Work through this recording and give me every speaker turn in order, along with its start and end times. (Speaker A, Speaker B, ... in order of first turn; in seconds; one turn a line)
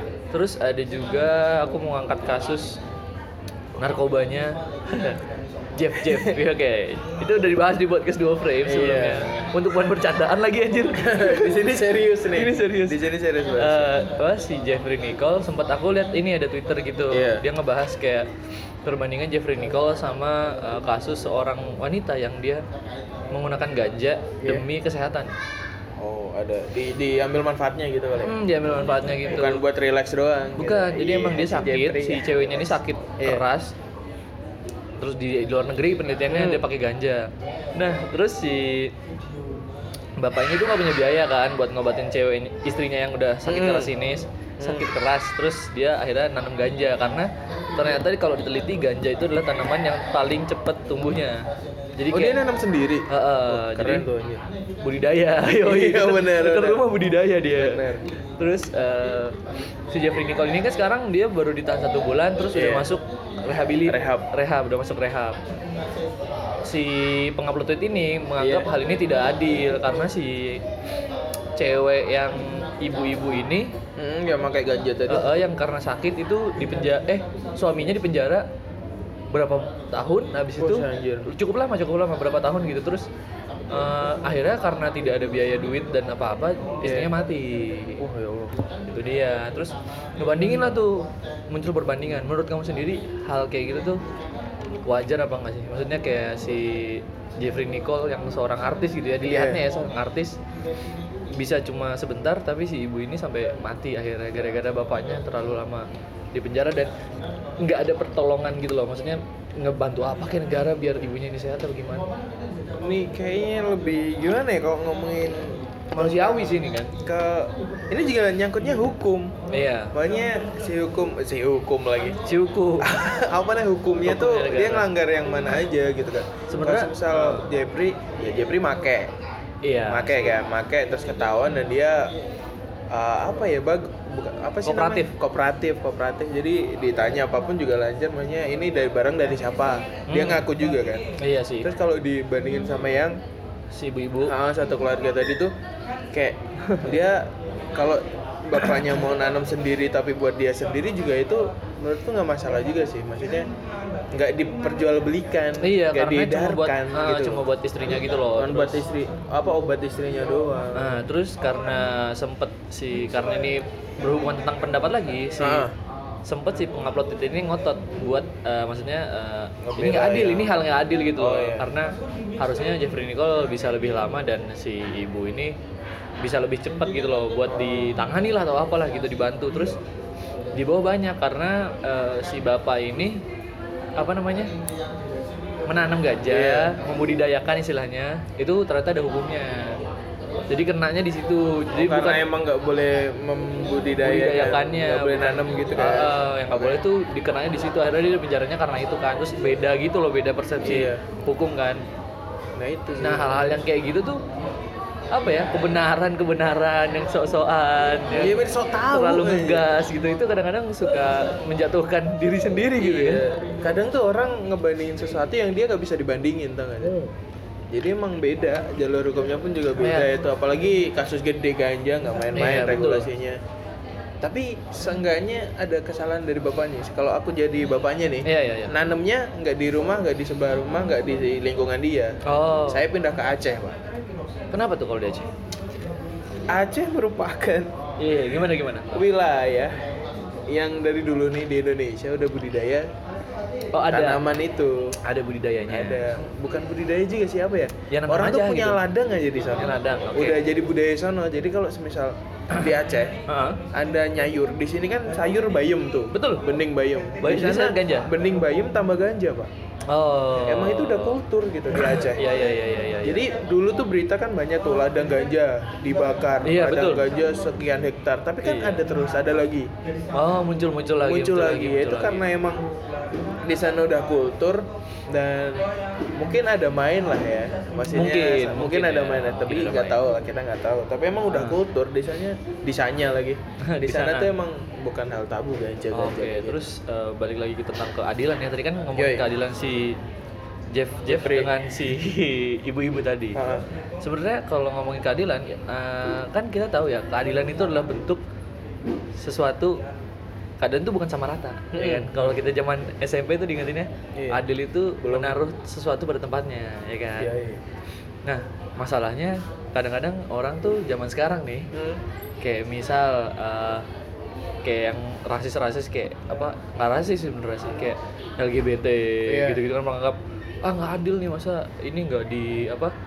Speaker A: 0.3-2.8
Speaker A: 3.8-5.2
Speaker A: 5.7-11.8
Speaker B: 6.0-6.3
Speaker B: 8.6-9.5
Speaker B: 10.9-14.0
Speaker A: 12.3-13.0
Speaker A: 13.6-18.3
Speaker B: 17.1-17.4
Speaker A: 18.8-22.6
Speaker A: 23.3-25.3
Speaker B: 26.0-28.3
Speaker A: 28.2-29.6
Speaker B: 29.2-33.5
Speaker A: 30.6-33.7
Speaker A: 35.0-38.9
Speaker B: 36.3-36.6
Speaker A: 40.2-52.4
Speaker B: 43.5-43.9
Speaker B: 44.6-44.9
Speaker B: 52.1-54.4
Speaker A: 53.1-54.1
Speaker A: 54.8-57.8
Speaker B: 55.5-56.8
Speaker B: 57.5-58.1
Speaker A: 58.4-59.4
Speaker A: 59.9-65.4
Speaker B: 62.5-62.9
Speaker B: 63.8-64.3
Speaker A: 66.6-70.6
Speaker B: 68.4-68.7
Speaker A: 71.5-73.7
Speaker B: 74.0-75.4
Speaker A: 75.1-78.5
Speaker A: 79.3-83.1
Speaker B: 80.6-81.3
Speaker A: 83.7-88.0
Speaker B: 86.8-87.1
Speaker B: 88.0-88.7
Speaker A: 88.9-94.0
Speaker A: 94.8-100.4
Speaker B: 99.2-99.7
Speaker A: 101.3-106.9
Speaker A: 107.6-112.1
Speaker B: 112.7-119.3
Speaker A: 115.9-116.9
Speaker A: 119.5-119.9
Speaker B: 119.9-122.2
Speaker A: 122.2-122.9
Speaker B: 122.8-129.1
Speaker A: 124.0-124.9
Speaker A: 126.5-127.5
Speaker A: 129.6-130.4
Speaker B: 129.9-132.1
Speaker B: 132.9-141.0
Speaker A: 134.6-135.1
Speaker A: 140.1-140.4
Speaker A: 141.2-141.7
Speaker B: 141.6-143.2
Speaker A: 143.7-144.3
Speaker B: 144.2-145.5
Speaker B: 146.1-153.5
Speaker A: 146.7-146.9
Speaker B: 154.1-157.4
Speaker A: 155.6-158.8
Speaker B: 158.3-161.0
Speaker A: 160.7-165.7
Speaker B: 165.4-165.7
Speaker A: 166.2-175.6
Speaker B: 169.6-170.6
Speaker B: 171.2-171.7
Speaker A: 176.2-179.8
Speaker B: 177.5-178.0
Speaker A: 180.5-183.2
Speaker A: 184.0-184.5
Speaker A: 185.6-189.8
Speaker B: 186.3-186.8
Speaker A: 190.5-192.2
Speaker B: 191.8-196.8
Speaker A: 194.0-201.8
Speaker B: 200.6-201.0
Speaker B: 202.6-203.6
Speaker A: 203.0-204.2
Speaker A: 205.1-213.2
Speaker B: 208.1-209.7
Speaker B: 212.8-217.0
Speaker B: 217.7-223.4
Speaker A: 219.8-220.1
Speaker A: 222.3-223.1
Speaker B: 224.2-232.2
Speaker A: 228.2-228.7
Speaker A: 232.2-232.8
Speaker B: 232.7-233.8
Speaker A: 234.5-235.3
Speaker B: 236.5-237.7
Speaker A: 238.0-239.0
Speaker B: 238.9-239.7
Speaker B: 240.5-242.9
Speaker A: 243.7-244.2
Speaker B: 243.9-245.0
Speaker A: 245.0-246.0
Speaker B: 245.7-253.1
Speaker A: 247.9-248.8
Speaker A: 249.6-250.4
Speaker A: 253.3-253.6
Speaker B: 253.7-259.5
Speaker A: 256.1-256.5
Speaker A: 257.2-258.1
Speaker A: 259.9-261.2
Speaker B: 260.4-262.4
Speaker A: 261.8-263.2
Speaker B: 263.0-269.7
Speaker A: 266.4-267.0
Speaker A: 268.4-268.8
Speaker A: 270.1-272.2
Speaker B: 271.0-272.7
Speaker B: 273.4-286.6
Speaker A: 277.9-280.0
Speaker A: 281.3-281.6
Speaker A: 283.6-284.3
Speaker A: 285.9-290.0
Speaker B: 288.9-289.3
Speaker A: 290.7-293.4
Speaker B: 291.1-291.5
Speaker B: 293.3-293.6
Speaker A: 294.0-298.2
Speaker A: 299.2-299.8
Speaker A: 300.6-307.3
Speaker B: 301.7-302.4
Speaker B: 304.1-304.4
Speaker B: 305.0-305.4
Speaker B: 307.2-307.6
Speaker A: 308.2-311.7
Speaker B: 311.7-312.0
Speaker A: 312.4-313.9
Speaker A: 314.6-322.9
Speaker B: 319.2-319.6